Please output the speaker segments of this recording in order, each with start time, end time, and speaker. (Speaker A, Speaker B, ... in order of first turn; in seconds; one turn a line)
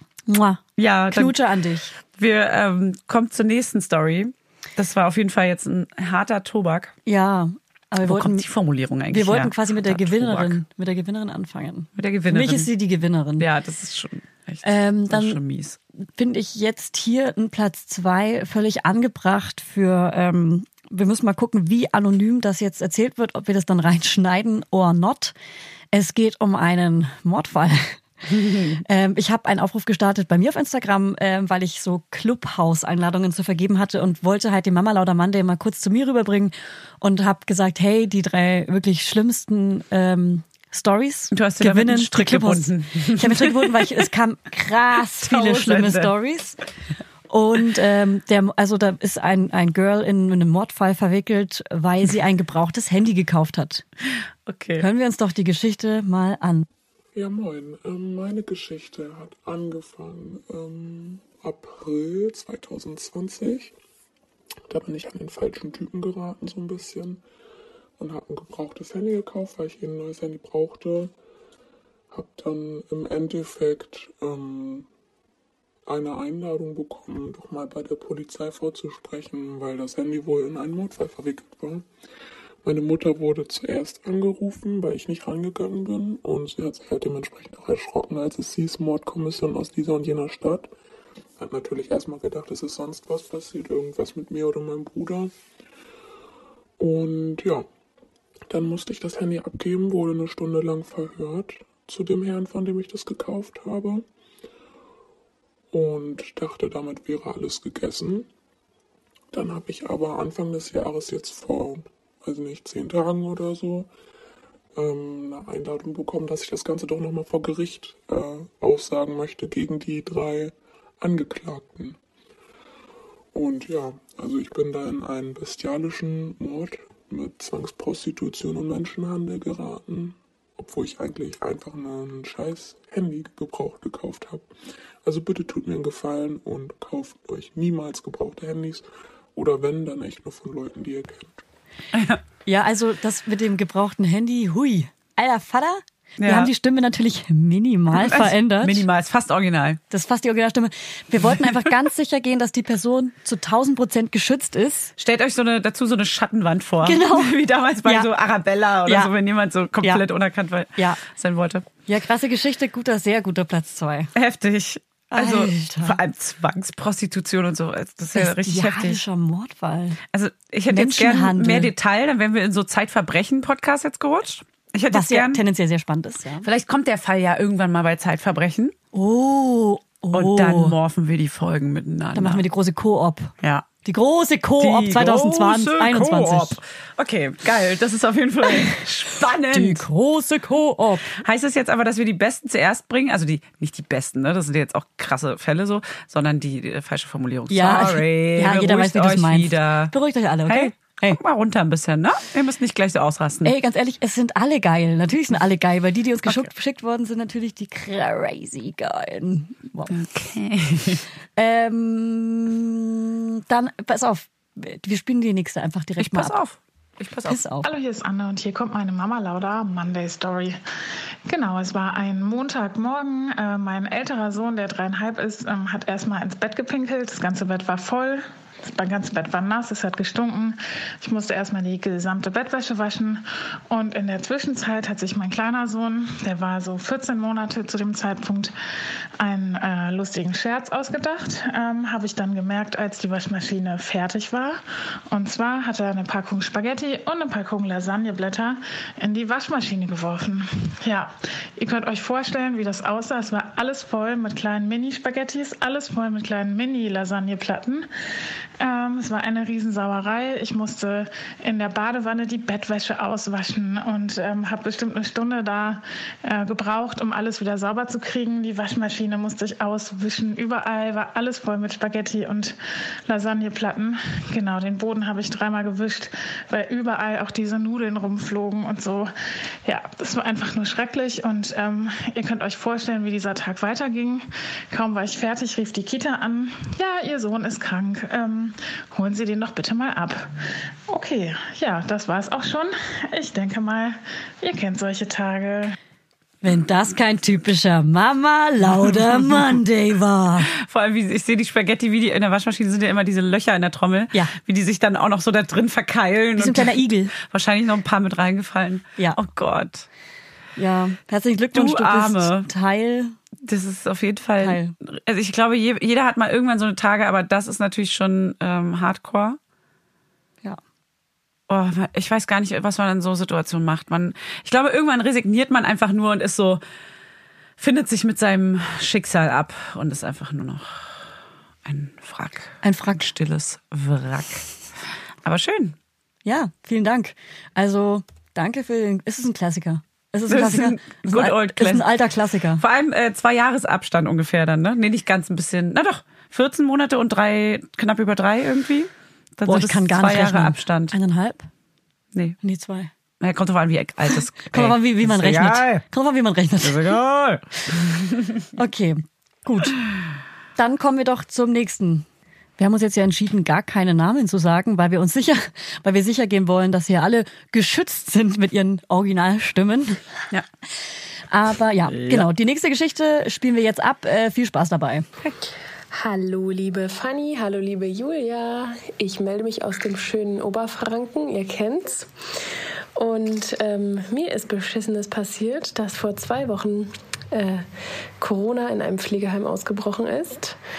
Speaker A: 0.3-1.9
Speaker B: 0.8-1.4
Speaker B: 2.1-6.9
Speaker A: 7.1-8.4
Speaker B: 8.1-10.6
Speaker A: 9.1-13.4
Speaker B: 12.0-12.7
Speaker B: 13.4-15.8
Speaker A: 14.6-15.4
Speaker A: 16.2-25.3
Speaker A: 25.9-46.6
Speaker B: 28.4-28.8
Speaker B: 41.3-44.0
Speaker B: 45.2-46.1
Speaker A: 47.3-53.8
Speaker B: 54.5-54.9
Speaker A: 54.8-56.7
Speaker C: 57.1-63.7
Speaker C: 64.7-67.2
Speaker C: 68.0-71.1
Speaker C: 72.1-74.9
Speaker C: 75.9-81.9
Speaker C: 82.7-90.7
Speaker C: 91.4-95.3
Speaker C: 96.8-97.7
Speaker C: 98.5-104.0
Speaker C: 105.7-108.3
Speaker C: 109.3-113.9
Speaker C: 114.8-122.0
Speaker C: 123.3-134.5
Speaker C: 135.0-141.4
Speaker B: 141.9-142.2
Speaker A: 142.5-148.8
Speaker B: 146.2-146.5
Speaker B: 147.9-149.8
Speaker A: 149.9-154.9
Speaker B: 155.0-161.7
Speaker A: 156.8-158.1
Speaker A: 161.9-164.1
Speaker B: 164.2-169.0
Speaker A: 165.1-166.0
Speaker A: 168.2-170.0
Speaker B: 170.1-175.4
Speaker A: 170.7-171.7
Speaker A: 174.9-176.5
Speaker B: 176.4-178.8
Speaker A: 178.9-180.7
Speaker B: 180.1-182.4
Speaker A: 182.2-183.3
Speaker A: 183.8-186.6
Speaker B: 184.6-189.9
Speaker A: 189.5-191.2
Speaker B: 191.2-199.9
Speaker A: 197.5-201.2
Speaker B: 200.5-203.5
Speaker A: 203.4-209.9
Speaker B: 209.9-211.0
Speaker A: 211.4-216.4
Speaker B: 216.0-217.4
Speaker A: 217.3-217.7
Speaker D: 217.6-220.6
Speaker D: 221.3-238.5
Speaker D: 239.2-257.9
Speaker D: 258.6-272.6
Speaker D: 273.1-279.1
Speaker D: 279.6-290.3
Speaker D: 290.9-295.8
Speaker A: 296.4-300.5
Speaker B: 300.6-309.9
Speaker A: 306.4-307.1
Speaker A: 310.6-313.1
Speaker B: 311.5-312.5
Speaker B: 313.4-319.4
Speaker A: 314.4-314.7
Speaker B: 321.5-326.6
Speaker B: 327.6-331.1
Speaker B: 331.6-334.5
Speaker A: 332.6-333.1
Speaker B: 335.2-335.8
Speaker A: 336.3-342.6
Speaker B: 340.3-341.9
Speaker B: 342.6-350.9
Speaker A: 349.5-351.5
Speaker A: 352.4-352.9
Speaker B: 353.2-355.8
Speaker A: 354.5-357.0
Speaker B: 356.6-358.2
Speaker A: 358.6-359.8
Speaker A: 360.6-362.1
Speaker A: 362.6-370.0
Speaker A: 371.3-375.1
Speaker B: 371.9-372.3
Speaker E: 375.9-382.1
Speaker E: 383.0-387.6
Speaker E: 388.2-390.6